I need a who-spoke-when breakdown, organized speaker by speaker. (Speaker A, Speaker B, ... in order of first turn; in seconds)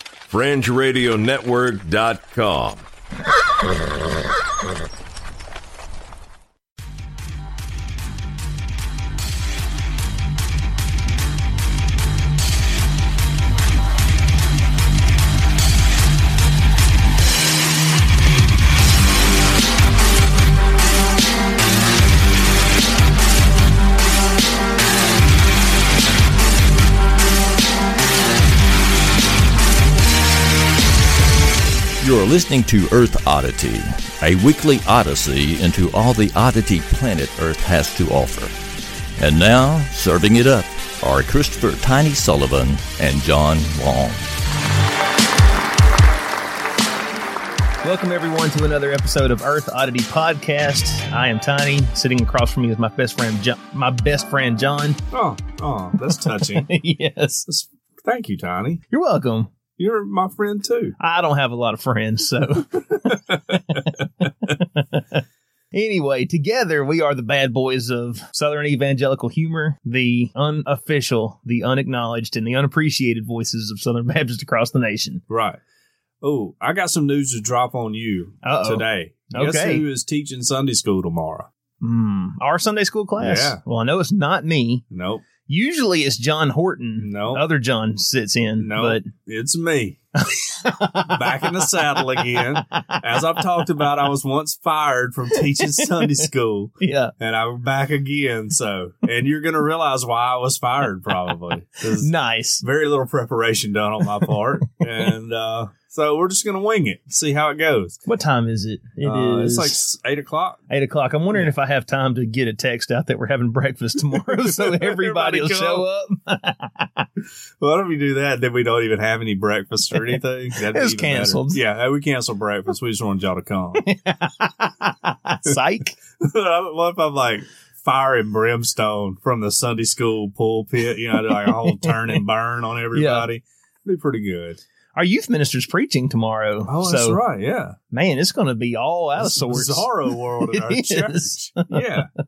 Speaker A: 0.3-2.9
Speaker B: 32.0-38.5, 39.2-44.3
Speaker C: 47.8-55.0, 56.1-57.5, 58.9-59.5, 61.0-63.8, 64.5-65.0, 65.7-75.2, 78.4-79.8, 81.8-84.8, 85.5-89.1, 90.3-91.4, 95.6-96.1, 96.8-97.1, 102.0-102.6, 108.1-109.8, 110.7-117.1, 120.0-121.6, 123.8-125.9, 131.3-132.2, 132.9-133.3, 134.9-137.2, 137.9-141.8
Speaker D: 55.1-56.7, 57.5-58.8, 59.8-60.9, 63.1-64.2, 75.3-75.6, 76.2-81.5, 83.2-83.6, 84.9-85.2, 87.0-87.4, 88.6-90.0, 91.1-108.0, 109.0-110.6, 114.1-115.8, 117.6-123.8, 126.2-134.6, 136.7-137.8, 139.2-142.1